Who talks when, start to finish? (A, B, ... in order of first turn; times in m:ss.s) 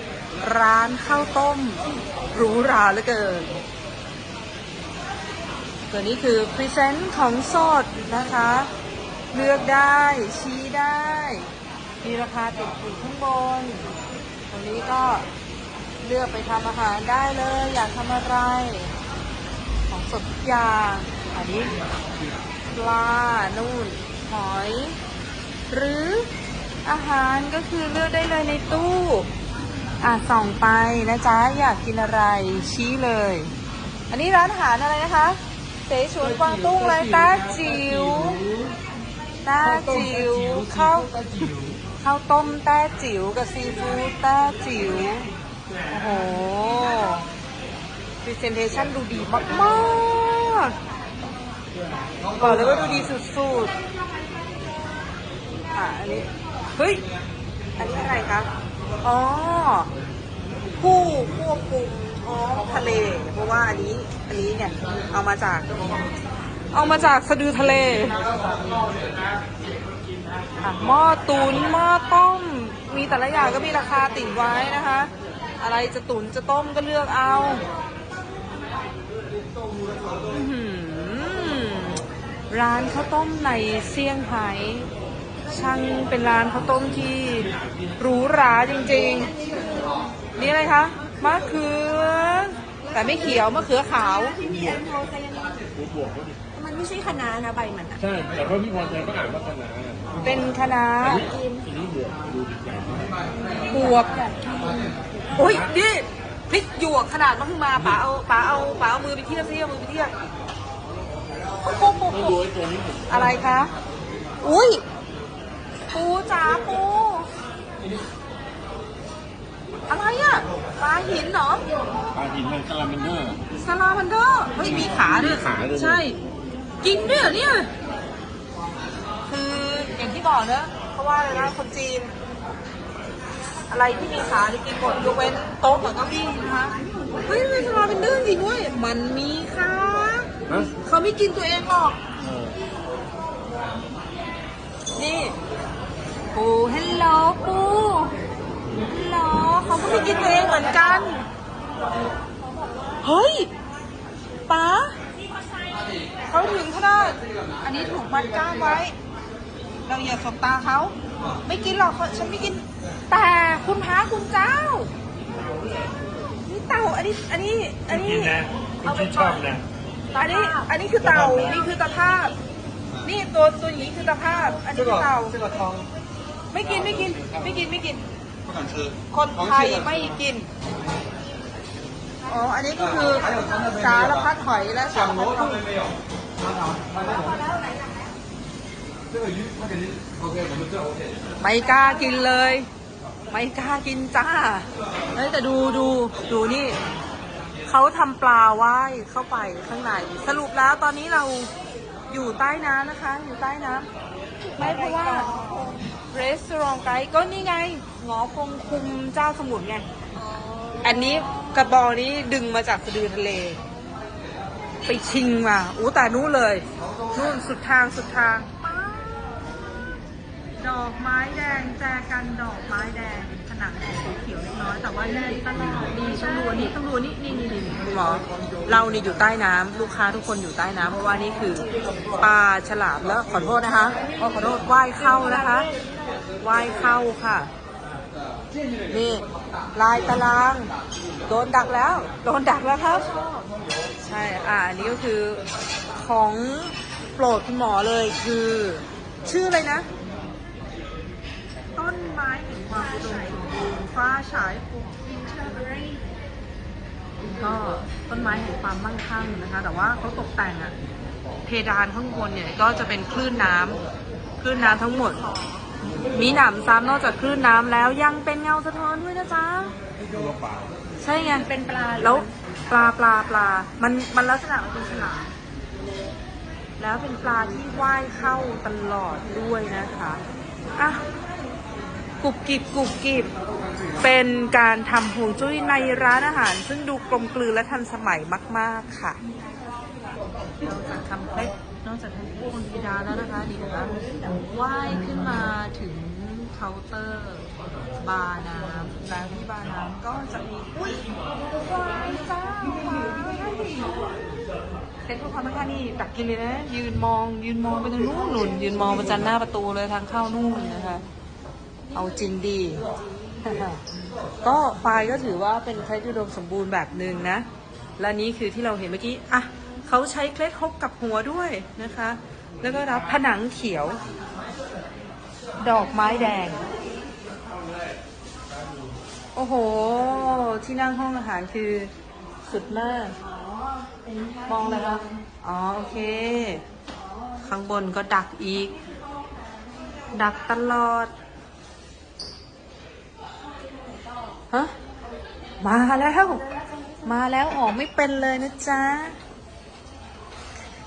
0:00.4-0:03.5 A
0:05.9-0:08.7 A
0:09.3-0:11.5 A
0:12.0-0:13.9 A
0:14.5-0:15.2 A
0:16.0-0:18.9 A
0:19.9-0:21.7 A
0:22.7-0:25.0 A
0:25.7-0:26.3 A
0:26.8-0:29.3 A
0:30.0-0:33.5 A
0:34.1-0:38.4 A
0:39.4-0:45.3 A
0:45.9-0:47.2 A
0:48.2-0:50.8 A
0:52.4-0:53.7 A
0:55.7-0:57.0 A
0:57.8-0:58.5 A
0:59.0-0:59.9 A
1:00.8-1:05.7 A
1:06.7-1:08.2 A
1:10.6-1:17.6 A
1:20.3-1:24.9 A
1:25.5-1:29.3 A
1:29.4-1:30.0 B
1:30.4-1:34.4 A
1:34.4-1:35.6 B
1:35.8-1:36.3 C
1:36.5-1:38.0 B
1:38.0-1:40.1 C
1:40.2-1:41.3 A
1:41.3-1:41.7 B
1:41.6-1:43.1 C
1:43.7-1:44.2 A
1:44.3-1:45.0 B
1:45.3-1:50.2 A
1:51.6-1:52.5 A
1:53.1-1:53.7 A
1:54.4-1:54.8 A
1:55.9-1:57.3 A
1:59.9-2:01.6 A
2:02.2-2:03.4 C
2:03.5-2:06.2 A
2:06.8-2:07.7 A
2:09.3-2:12.1 A
2:13.7-2:22.0 A
2:24.9-2:25.4 A
2:26.3-2:28.2 A
2:28.9-2:31.2 A
2:33.0-2:33.5 A
2:34.5-2:34.9 A
2:36.3-2:38.9 A
2:39.8-2:44.9 A
2:46.4-2:49.2 A
2:48.9-2:49.4 C
2:49.1-2:49.5 B
2:50.1-2:50.5 B
2:50.1-2:52.4 A
2:53.0-2:55.4 A
2:56.5-2:58.0 A
2:59.1-3:00.5 A
3:02.2-3:05.7 A
3:07.1-3:07.9 B
3:11.4-3:12.7 A
3:13.3-3:16.8 A
3:17.6-3:21.5 A
3:22.1-3:23.9 A
3:24.6-3:29.9 A
3:24.6-3:25.8 B
3:30.2-3:31.4 B
3:30.8-3:33.6 A
3:34.8-3:39.3 A
3:40.6-3:55.7 A
3:56.4-3:57.5 A
3:58.9-4:00.7 A
4:01.3-4:03.1 A
4:04.0-4:09.9 A
4:11.7-4:15.7 A
4:17.3-4:20.7 A
4:21.4-4:23.8 A
4:24.4-4:25.2 A
4:24.8-4:25.7 B
4:26.1-4:29.7 A
4:31.0-4:35.3 A
4:31.5-4:32.2 B
4:36.8-4:40.2 A
4:40.8-4:41.0 A
4:42.2-4:43.3 A
4:44.0-4:49.2 A
4:50.6-4:57.5 A
4:58.0-5:01.0 A
5:01.6-5:04.0 A
5:05.0-5:11.0 A
5:11.9-5:12.8 A
5:13.4-5:13.8 A
5:14.4-5:17.5 A
5:18.0-5:24.0 A
5:25.6-5:26.6 A
5:29.4-5:31.9 A
5:32.4-5:33.2 A
5:34.4-5:36.6 A
5:37.4-5:38.8 A
5:40.1-5:41.1 A
5:45.6-5:46.5 A
5:47.0-5:49.2 A